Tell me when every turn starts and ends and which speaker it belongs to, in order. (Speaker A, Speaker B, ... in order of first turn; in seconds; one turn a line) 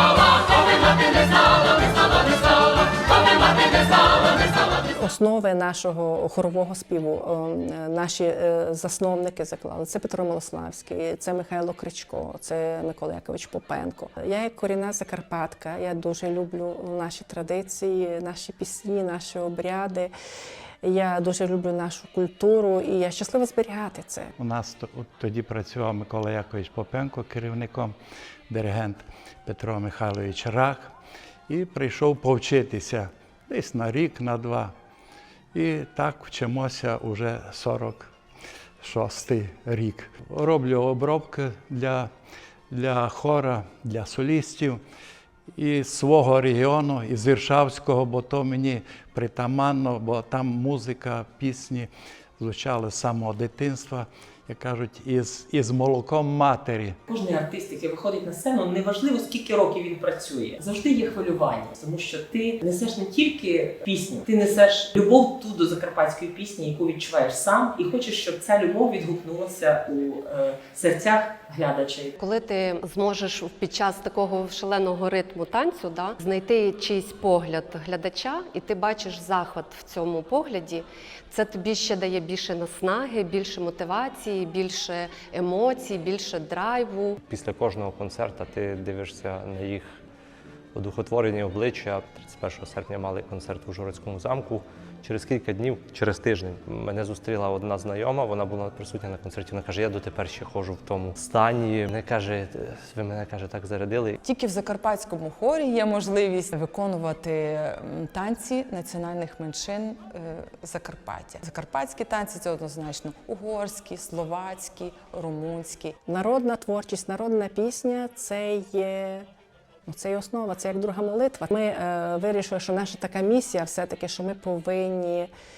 Speaker A: 4.9-20.1
Speaker A: 20.8-24.3
Speaker B: 24.4-27.9
Speaker B: 28.5-30.9
Speaker B: 31.5-34.7
Speaker B: 35.5-38.1
Speaker B: 38.8-42.1
Speaker B: 42.7-44.8
Speaker B: 45.5-57.0
Speaker C: 57.1-72.1
Speaker D: 72.2-87.2
Speaker E: 87.2-89.9
Speaker E: 90.7-104.2
Speaker F: 104.2-116.0
Speaker A: 116.1-119.2
Speaker A: 119.8-125.3